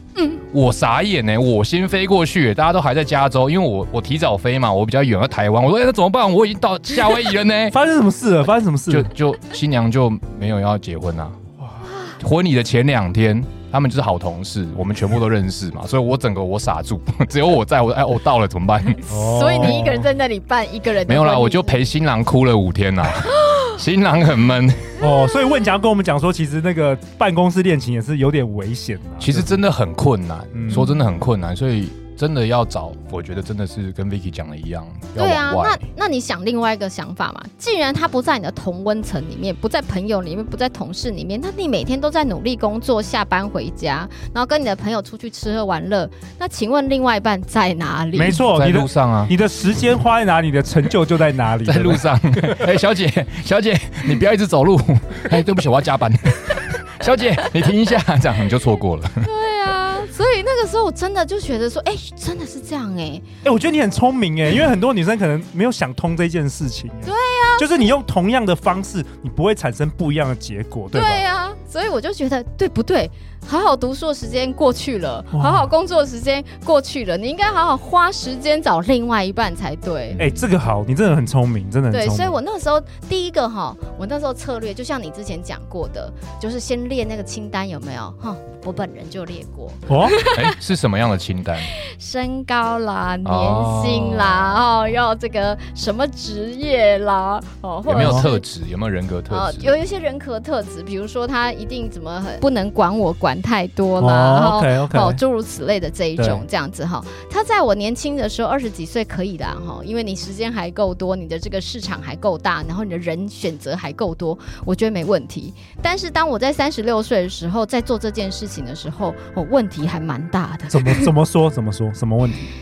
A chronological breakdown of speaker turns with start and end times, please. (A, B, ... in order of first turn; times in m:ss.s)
0:00.5-0:07.8 A
0:07.7-0:09.1 B
0:08.9-0:11.4 A
0:11.9-0:12.2 C
0:12.2-0:19.0 A
0:19.1-0:20.1 B
0:19.1-0:21.8 C
0:21.1-0:25.0 A
0:25.0-0:29.6 B
0:29.2-0:35.8 A
0:30.5-0:30.9 B
0:35.2-0:48.4 C
0:48.2-0:52.6 B
0:48.4-0:49.3 A
0:51.7-0:59.3 A
0:59.2-1:03.3 C
1:03.4-1:11.2 B
1:07.1-1:07.8 C
1:10.9-1:20.2 C
1:15.3-1:15.7 B
1:20.2-1:22.4 B
1:21.9-1:30.6 C
1:29.9-1:30.2 B
1:30.3-1:31.7 A
1:31.7-1:38.4 C
1:33.2-1:34.6 A
1:37.9-1:39.8 A
1:38.0-1:38.3 B
1:39.3-2:01.1 C
1:44.0-1:45.2 B
1:46.2-1:46.4 B
2:00.7-2:02.5 B